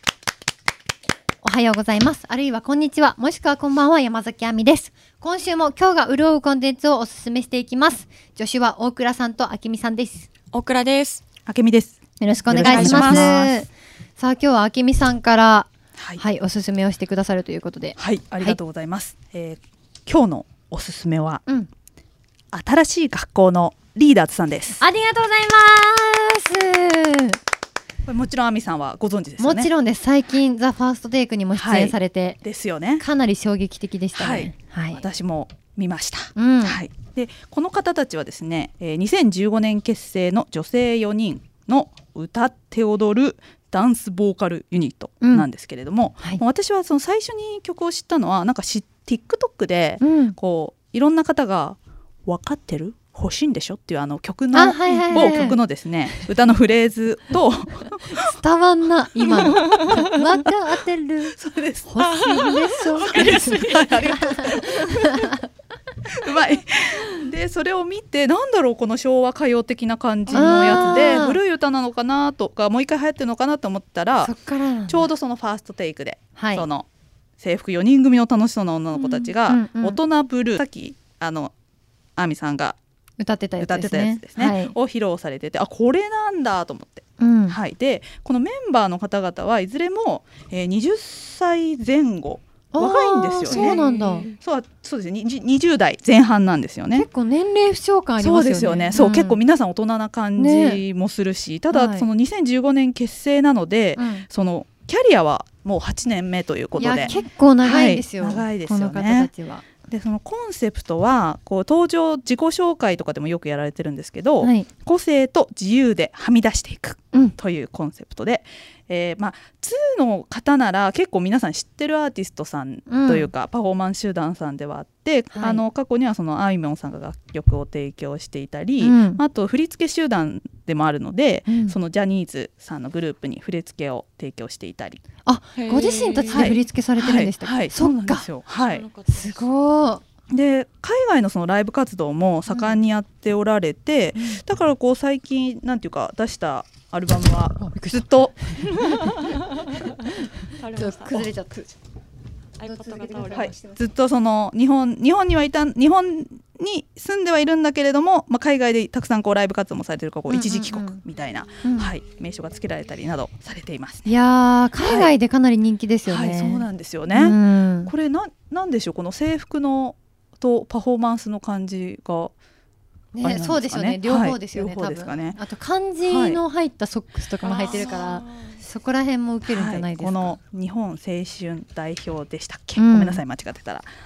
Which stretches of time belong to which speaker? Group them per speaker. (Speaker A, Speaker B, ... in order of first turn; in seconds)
Speaker A: 1.4-10.3, 12.2-18.6, 24.8-27.4, 29.4-32.4, 33.0-35.0, 36.4-36.8, 45.2-45.5, 50.0-50.4, 54.5-55.6, 58.1-65.4, 70.3-71.4, 74.2-75.1, 76.4-76.7, 79.0-80.0, 83.2-84.8, 87.2-87.6, 92.7-94.3, 96.9-99.4, 100.4-100.8, 101.7-102.1, 104.0-104.3, 106.8-109.7, 114.4-114.7, 122.9-123.3, 125.3-125.6, 128.8-129.2, 131.5-131.8, 135.2-138.3, 139.1-140.0, 142.5-142.8, 144.2-144.4, 147.6-151.7, 152.6-153.8, 160.3-161.0, 161.6-162.0, 164.1-167.9, 173.1-180.4, 182.8-183.2
Speaker B: 10.5-11.2, 12.6-13.5, 55.1-55.5, 59.6-60.0, 62.0-64.2, 70.3-71.2, 93.5-94.4, 135.6-136.6, 138.6-139.4, 148.8-149.6, 150.6-151.3, 152.6-153.7, 177.4-178.6
Speaker C: 11.5-12.0, 12.5-13.4, 16.0-16.2, 18.0-21.4, 22.5-24.8, 28.1-29.7, 31.5-33.0, 34.2-58.3, 59.3-60.5, 61.3-61.9, 63.0-65.3, 66.1-74.3, 74.9-76.9, 77.4-81.5, 82.2-82.8, 83.6-93.8, 94.4-97.1, 98.2-109.3, 109.8-135.0, 136.3-138.8, 140.3-148.3, 153.3-164.1, 164.8-165.1, 166.1-172.3, 173.2-175.4, 176.1-176.4, 179.5-183.9